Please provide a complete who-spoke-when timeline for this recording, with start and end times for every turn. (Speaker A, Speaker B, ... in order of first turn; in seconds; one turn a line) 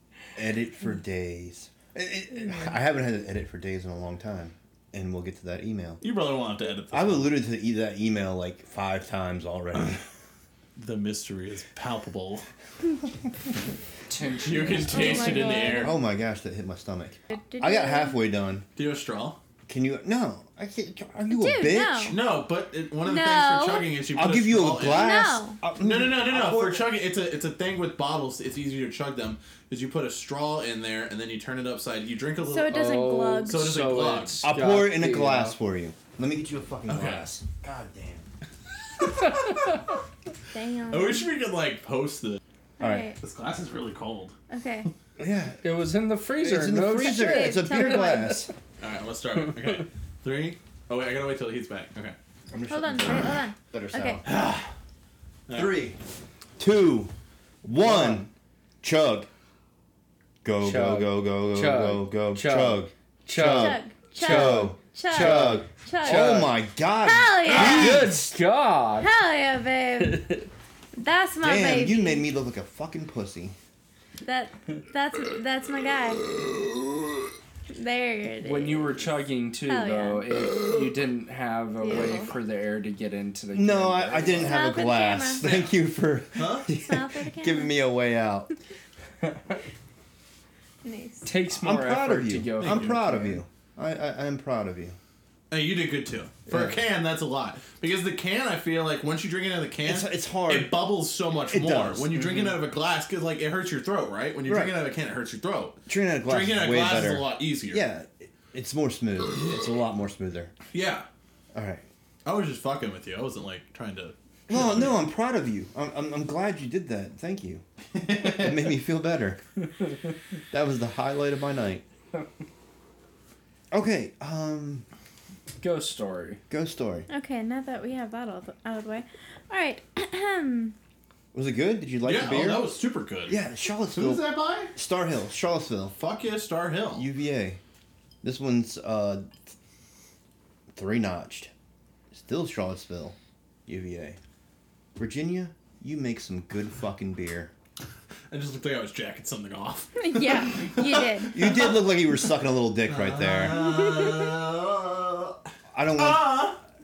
Speaker A: 0.3-6.0
Speaker B: 6.0-7.3
Speaker A: 6.9-10.0
Speaker B: 10.8-12.5
Speaker C: 14.1-15.9
Speaker B: 14.4-15.9
Speaker D: 14.8-16.0
Speaker A: 15.7-18.7
Speaker D: 17.3-18.2
Speaker B: 18.8-19.4
Speaker A: 19.7-22.2
Speaker D: 21.3-22.1
Speaker B: 22.1-25.2
Speaker D: 23.0-23.9
Speaker A: 24.1-26.9
Speaker D: 24.8-25.6
Speaker B: 25.8-32.9
Speaker D: 32.5-33.7
Speaker C: 32.7-35.6
Speaker B: 33.5-34.4
Speaker A: 34.4-38.3
Speaker B: 36.9-37.3
Speaker B: 39.1-39.8
Speaker D: 40.5-41.3
Speaker B: 40.9-42.4
Speaker D: 42.8-43.2
Speaker A: 42.8-43.1
Speaker B: 43.2-44.4
Speaker D: 44.5-44.9
Speaker A: 45.2-45.6
Speaker C: 45.6-48.2
Speaker A: 46.4-48.5
Speaker D: 47.0-48.5
Speaker B: 48.8-52.2
Speaker A: 52.5-54.3
Speaker D: 52.7-54.2
Speaker B: 54.2-54.7
Speaker B: 55.5-55.8
Speaker A: 55.5-56.0
Speaker A: 56.6-57.1
Speaker A: 57.6-58.3
Speaker C: 57.8-58.3
Speaker A: 58.8-59.3
Speaker A: 60.4-68.3
Speaker C: 60.6-66.5
Speaker D: 63.4-66.5
Speaker D: 67.0-68.1
Speaker C: 67.5-69.1
Speaker B: 67.6-67.9
Speaker D: 69.0-70.4
Speaker D: 71.0-72.2
Speaker A: 71.4-73.6
Speaker D: 74.2-76.3
Speaker D: 77.7-79.1
Speaker C: 78.4-84.6
Speaker D: 79.7-80.3
Speaker D: 81.8-82.3
Speaker A: 83.5-88.5
Speaker D: 84.4-85.7
Speaker B: 86.4-86.7
Speaker D: 86.7-87.8
Speaker D: 90.8-91.3
Speaker C: 91.2-93.4
Speaker A: 91.5-95.0
Speaker B: 92.6-93.0
Speaker B: 95.5-107.8
Speaker A: 96.5-96.8
Speaker A: 99.8-100.8
Speaker A: 101.5-102.4
Speaker A: 104.5-104.8
Speaker A: 105.9-110.5
Speaker B: 110.7-111.1
Speaker A: 111.5-111.8
Speaker B: 112.2-115.0
Speaker A: 114.5-119.4
Speaker B: 118.0-118.7
Speaker A: 120.5-121.8
Speaker A: 123.7-124.9
Speaker C: 125.6-126.4
Speaker A: 126.5-127.1
Speaker D: 127.1-130.8
Speaker A: 131.3-132.7
Speaker B: 132.0-133.4
Speaker A: 133.3-136.0
Speaker B: 133.9-134.7
Speaker B: 136.0-137.1
Speaker A: 136.9-137.6
Speaker A: 138.2-139.3
Speaker A: 140.7-141.5
Speaker A: 142.1-143.2
Speaker A: 143.7-144.2
Speaker A: 145.0-147.5
Speaker B: 148.3-151.8
Speaker D: 150.0-151.4
Speaker A: 151.3-153.6
Speaker B: 152.9-155.4
Speaker D: 153.6-154.3
Speaker A: 155.7-156.6
Speaker B: 156.0-156.6